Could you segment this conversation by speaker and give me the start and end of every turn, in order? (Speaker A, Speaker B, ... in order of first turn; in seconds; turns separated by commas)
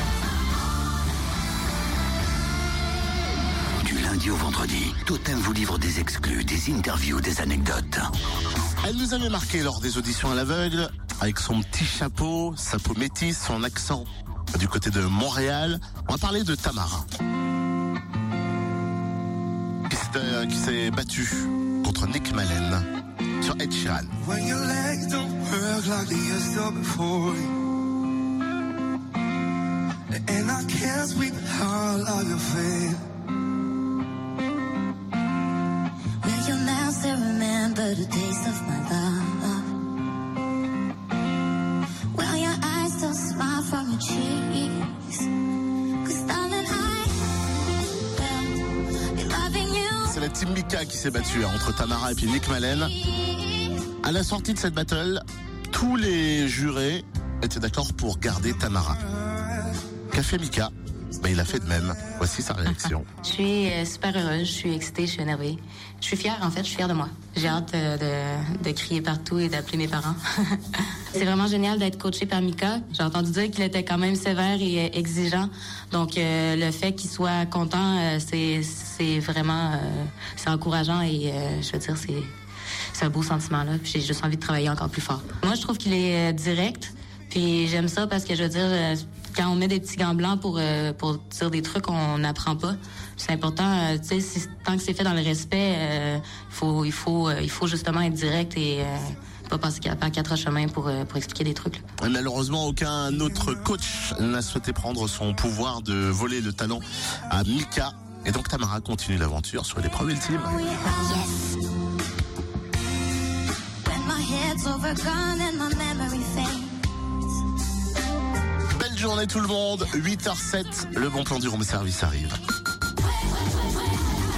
Speaker A: 3.8-8.1, Speaker B: 8.8-17.1, Speaker B: 19.9-22.9, Speaker B: 23.4-24.1, Speaker C: 24.2-27.6, Speaker C: 30.1-33.0, Speaker D: 36.2-39.8, Speaker D: 42.1-45.3, Speaker D: 46.0-47.3, Speaker D: 48.1-50.2, Speaker B: 50.0-53.0, Speaker D: 53.2-53.8, Speaker B: 54.0-59.0, Speaker B: 60.1-63.1, Speaker E: 63.2-82.3, Speaker E: 82.9-101.8, Speaker B: 102.0-110.6, Speaker D: 110.5-111.6, Speaker D: 113.8-116.8, Speaker B: 118.7-122.4